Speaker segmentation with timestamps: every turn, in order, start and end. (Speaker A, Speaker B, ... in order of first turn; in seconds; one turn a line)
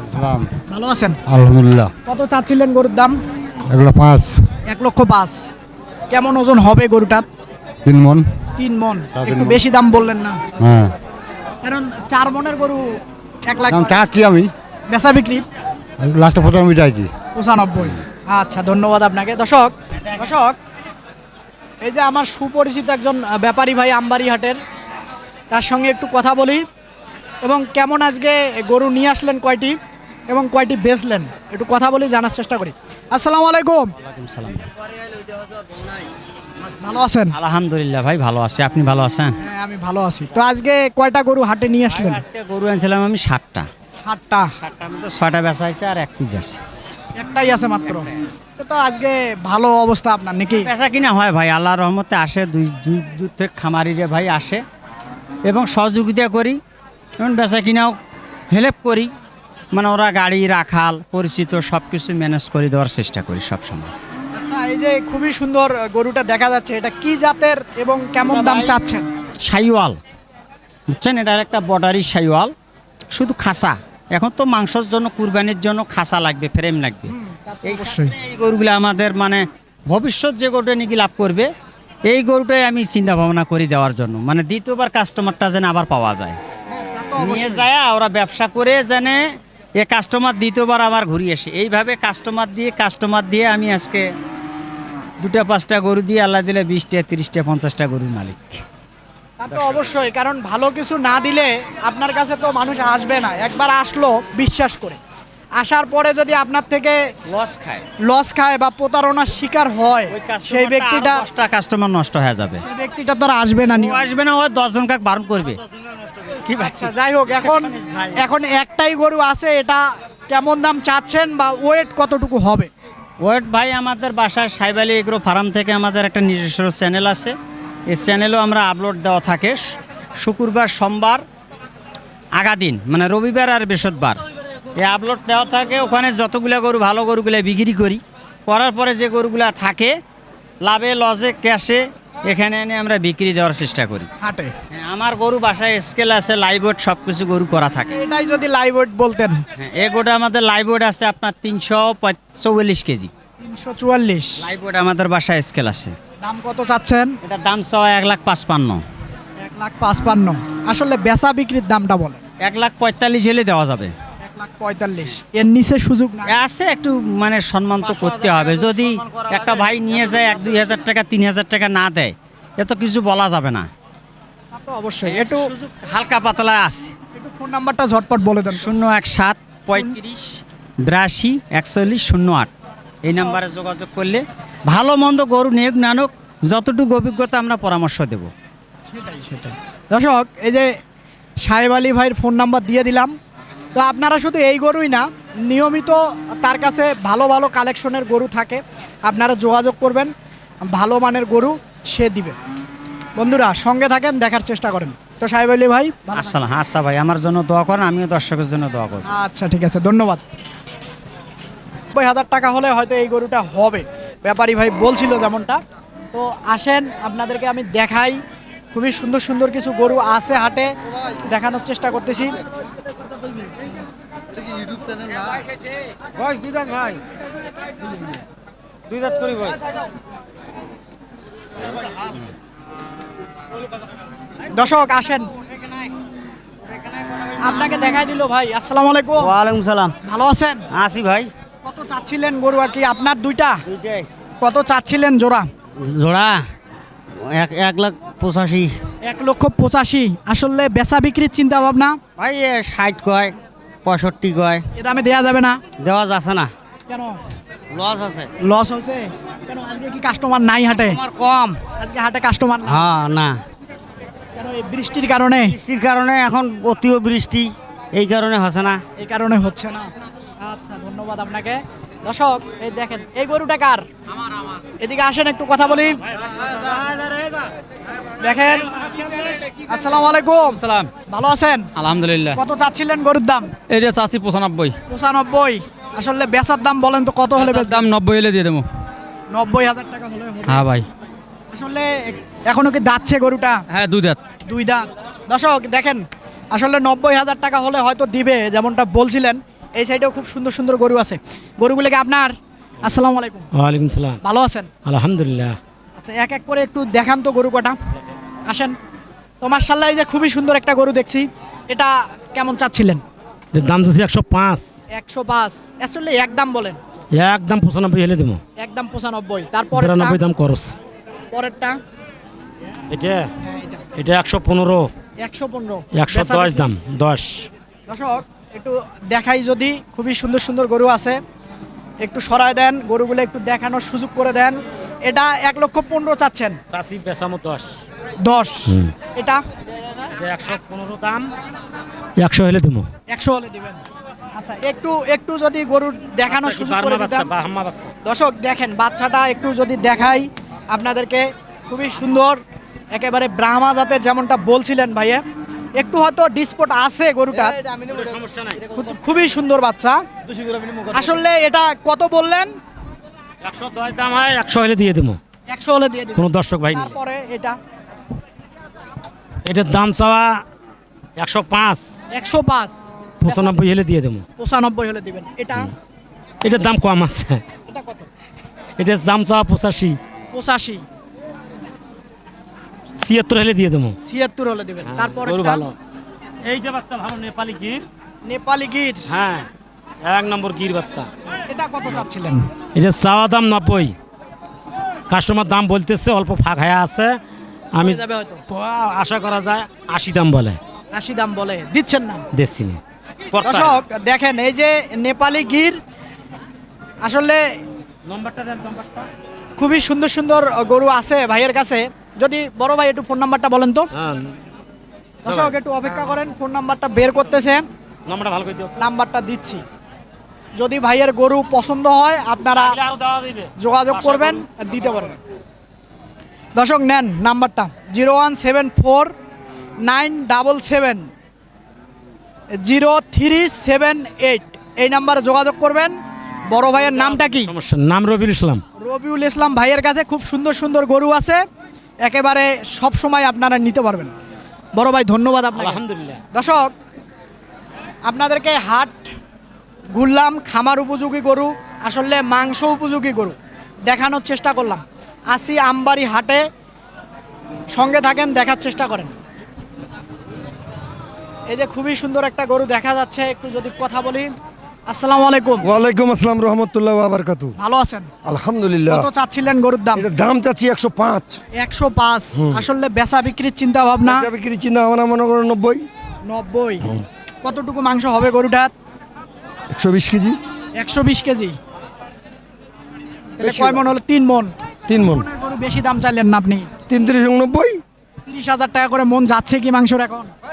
Speaker A: 0.1-0.5
Speaker B: 0.7-1.2
Speaker A: 1.3-1.9
Speaker B: 2.0-3.2
Speaker A: 3.7-4.2
Speaker B: 4.7-5.5
Speaker B: 6.1-7.2
Speaker A: 7.8-8.2
Speaker B: 8.6-10.4
Speaker A: 9.2-9.5
Speaker B: 11.6-14.0
Speaker C: 13.9-14.4
Speaker B: 14.9-15.4
Speaker A: 16.1-16.9
Speaker C: 16.3-17.0
Speaker B: 17.3-20.6
Speaker B: 21.8-24.6
Speaker B: 25.5-26.6
Speaker B: 27.4-29.8
Speaker B: 30.3-33.9
Speaker D: 34.0-34.7
Speaker B: 36.8-37.3
Speaker D: 37.3-39.4
Speaker B: 39.4-42.2
Speaker D: 41.9-43.7
Speaker B: 44.0-44.5
Speaker D: 44.6-46.6
Speaker B: 47.2-50.7
Speaker D: 50.6-54.6
Speaker D: 55.5-56.6
Speaker D: 57.2-58.0
Speaker D: 58.5-59.1
Speaker D: 59.7-63.9
Speaker B: 64.3-69.1
Speaker D: 68.2-68.7
Speaker D: 69.4-70.0
Speaker D: 70.9-72.5
Speaker D: 73.1-77.1
Speaker B: 77.1-78.1
Speaker D: 77.6-81.5
Speaker D: 82.1-86.4
Speaker B: 86.7-87.7
Speaker D: 87.2-89.2
Speaker D: 89.8-94.0
Speaker D: 95.2-98.6
Speaker B: 99.4-105.0
Speaker D: 99.5-99.9
Speaker B: 105.5-107.0
Speaker D: 107.3-107.8
Speaker B: 108.0-111.2
Speaker D: 110.1-112.6
Speaker B: 112.6-114.1
Speaker D: 113.7-115.6
Speaker D: 116.4-118.3
Speaker B: 116.6-122.7
Speaker D: 123.2-127.3
Speaker D: 127.9-129.6
Speaker D: 130.2-131.2
Speaker D: 132.3-134.2
Speaker D: 134.8-139.9
Speaker D: 140.6-144.1
Speaker B: 144.2-144.5
Speaker D: 144.7-147.9
Speaker B: 147.9-149.4
Speaker D: 149.6-153.1
Speaker B: 153.4-154.4
Speaker D: 154.4-155.9
Speaker B: 156.2-157.2
Speaker D: 157.2-158.8
Speaker B: 159.4-162.2
Speaker D: 162.4-163.9
Speaker B: 164.2-166.3
Speaker D: 166.3-173.7
Speaker B: 174.5-175.5
Speaker D: 175.1-176.9
Speaker B: 177.1-178.7
Speaker D: 178.5-182.5
Speaker D: 183.0-188.3
Speaker B: 183.1-183.4
Speaker B: 188.9-190.8
Speaker B: 191.4-193.1
Speaker B: 193.7-200.1
Speaker B: 200.7-202.3
Speaker B: 203.2-206.4
Speaker D: 206.1-209.0
Speaker B: 209.1-210.2
Speaker B: 211.9-215.6
Speaker B: 216.1-218.2
Speaker B: 218.7-220.7
Speaker B: 221.3-222.4
Speaker D: 228.9-229.6
Speaker B: 234.5-235.3
Speaker B: 237.4-239.3
Speaker D: 239.2-239.9
Speaker B: 240.0-240.6
Speaker D: 240.7-241.3
Speaker B: 241.6-243.6
Speaker D: 243.7-244.1
Speaker B: 244.4-245.5
Speaker D: 245.8-246.4
Speaker D: 247.3-248.7
Speaker B: 249.0-252.0
Speaker D: 252.2-254.6
Speaker B: 254.8-255.6
Speaker D: 255.8-256.5
Speaker B: 256.9-257.2
Speaker D: 257.7-258.3
Speaker B: 258.4-261.0
Speaker D: 260.8-261.6
Speaker B: 261.8-262.8
Speaker D: 262.7-263.4
Speaker B: 264.4-265.6
Speaker D: 265.4-268.8
Speaker B: 269.0-269.9
Speaker B: 270.4-273.8
Speaker B: 274.8-276.0
Speaker E: 276.4-277.4
Speaker B: 278.2-278.6
Speaker B: 279.7-280.6
Speaker F: 280.5-280.9
Speaker B: 281.1-281.7
Speaker F: 281.8-282.4
Speaker B: 282.4-283.5
Speaker F: 283.7-284.8
Speaker B: 284.9-287.8
Speaker F: 287.4-288.6
Speaker B: 289.3-290.6
Speaker F: 290.5-290.9
Speaker B: 291.5-293.6
Speaker F: 293.7-294.2
Speaker B: 294.4-303.5
Speaker E: 303.6-304.2
Speaker B: 304.2-304.7
Speaker E: 304.9-305.6
Speaker B: 306.0-307.8
Speaker B: 308.5-308.7
Speaker B: 309.4-313.0
Speaker E: 313.5-314.6
Speaker B: 314.9-316.8
Speaker E: 317.1-318.4
Speaker B: 318.6-320.2
Speaker E: 319.7-320.7
Speaker B: 321.3-321.8
Speaker E: 322.9-323.3
Speaker B: 323.4-323.8
Speaker E: 323.9-324.9
Speaker B: 325.2-326.6
Speaker E: 325.9-327.5
Speaker B: 327.9-331.2
Speaker B: 332.0-336.6
Speaker E: 336.7-337.7
Speaker B: 338.2-339.4
Speaker E: 338.7-338.9
Speaker E: 340.2-341.2
Speaker E: 342.2-342.9
Speaker B: 343.1-343.8
Speaker B: 344.4-347.3
Speaker E: 346.2-347.9
Speaker B: 348.0-352.4
Speaker B: 352.9-355.2
Speaker B: 355.8-357.6
Speaker E: 357.7-358.6
Speaker B: 358.7-360.0
Speaker B: 360.9-362.5
Speaker E: 363.4-365.2
Speaker B: 365.5-367.6
Speaker E: 366.2-366.9
Speaker E: 369.4-370.4
Speaker E: 371.2-371.9
Speaker B: 372.1-373.6
Speaker E: 373.2-374.2
Speaker B: 374.4-375.7
Speaker E: 376.4-377.4
Speaker B: 377.7-378.1
Speaker E: 378.8-380.0
Speaker B: 380.3-380.8
Speaker E: 383.0-383.9
Speaker B: 384.0-385.6
Speaker E: 384.9-385.7
Speaker E: 386.4-387.8
Speaker B: 388.2-389.0
Speaker E: 389.1-389.5
Speaker E: 390.0-391.1
Speaker B: 391.5-392.4
Speaker E: 392.7-393.9
Speaker E: 395.1-397.2
Speaker E: 397.7-400.6
Speaker B: 397.8-398.4
Speaker B: 400.9-402.2
Speaker E: 402.3-402.8
Speaker E: 403.3-403.8
Speaker B: 403.4-405.8
Speaker B: 407.0-407.4
Speaker E: 408.1-409.1
Speaker B: 409.6-413.9
Speaker E: 413.9-414.3
Speaker E: 415.2-415.6
Speaker B: 415.2-417.6
Speaker E: 418.1-418.8
Speaker B: 418.8-419.6
Speaker B: 420.6-422.8
Speaker E: 422.5-424.4
Speaker B: 423.6-425.1
Speaker B: 426.5-429.1
Speaker B: 429.8-431.1
Speaker B: 432.6-435.9
Speaker B: 436.5-437.5
Speaker E: 436.9-438.6
Speaker B: 438.8-441.4
Speaker B: 442.0-444.1
Speaker B: 444.8-445.8
Speaker E: 445.6-446.2
Speaker B: 446.3-446.7
Speaker B: 448.0-449.1
Speaker B: 449.9-453.3
Speaker B: 453.9-456.4
Speaker B: 457.7-459.1
Speaker B: 461.5-464.3
Speaker B: 464.9-465.6
Speaker C: 465.6-467.5
Speaker B: 467.6-468.1
Speaker C: 468.2-469.1
Speaker B: 468.9-470.1
Speaker C: 469.9-471.4
Speaker B: 471.5-474.3
Speaker C: 474.1-475.8
Speaker B: 476.3-476.8
Speaker B: 477.4-478.7
Speaker C: 479.7-480.4
Speaker B: 480.8-481.6
Speaker B: 483.4-486.7
Speaker C: 483.4-483.8
Speaker C: 484.9-485.2
Speaker C: 486.9-487.8
Speaker B: 488.2-490.3